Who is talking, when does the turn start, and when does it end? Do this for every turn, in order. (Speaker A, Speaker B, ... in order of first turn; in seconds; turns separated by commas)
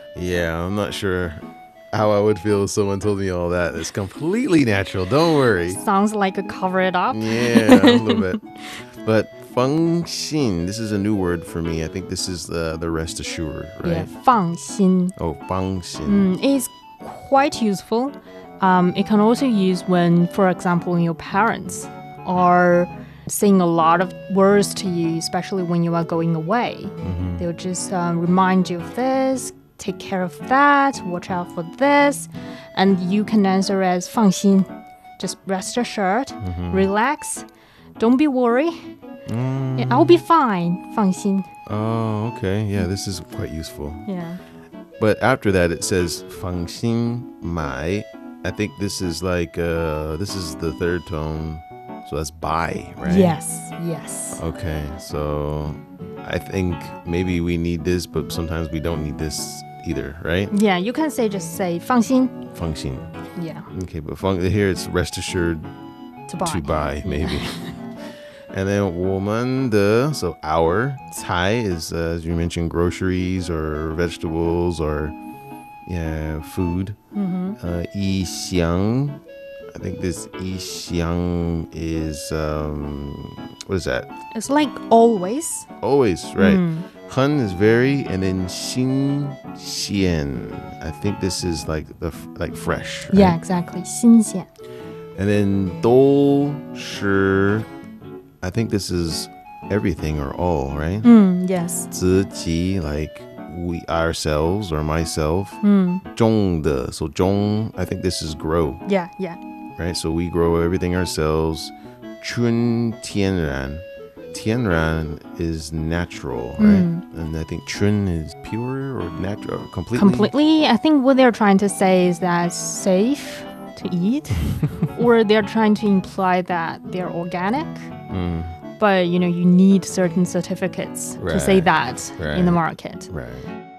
Speaker A: 0.1-5.8, Speaker B: 5.7-8.3, Speaker A: 7.1-8.5, Speaker A: 9.0-14.1, Speaker B: 13.8-15.1, Speaker A: 15.2-16.3, Speaker B: 16.1-34.7, Speaker A: 27.0-27.4, Speaker B: 35.2-37.5, Speaker A: 36.4-36.9, Speaker B: 38.0-38.8, Speaker A: 39.2-40.2, Speaker B: 39.8-41.5, Speaker A: 41.6-44.0, Speaker B: 44.1-44.4, Speaker A: 45.0-53.4, Speaker B: 53.0-54.4, Speaker A: 54.3-60.5, Speaker B: 60.5-62.3, Speaker A: 62.5-63.1, Speaker B: 63.4-63.7, Speaker A: 63.7-65.7, Speaker B: 66.3-67.7, Speaker A: 66.4-67.6, Speaker A: 68.5-75.1, Speaker A: 75.8-77.0, Speaker B: 77.1-77.6, Speaker A: 77.6-79.2, Speaker A: 79.7-84.1, Speaker B: 84.3-85.7, Speaker A: 85.8-93.4, Speaker B: 86.4-86.9, Speaker B: 93.1-94.5, Speaker A: 95.1-97.7, Speaker A: 98.4-101.1, Speaker B: 101.0-101.9, Speaker A: 101.9-108.8, Speaker B: 105.6-106.0, Speaker B: 108.8-109.4, Speaker A: 109.8-120.3, Speaker B: 116.6-117.0, Speaker B: 119.9-127.9, Speaker A: 128.1-128.6, Speaker B: 128.8-133.1, Speaker A: 131.2-133.5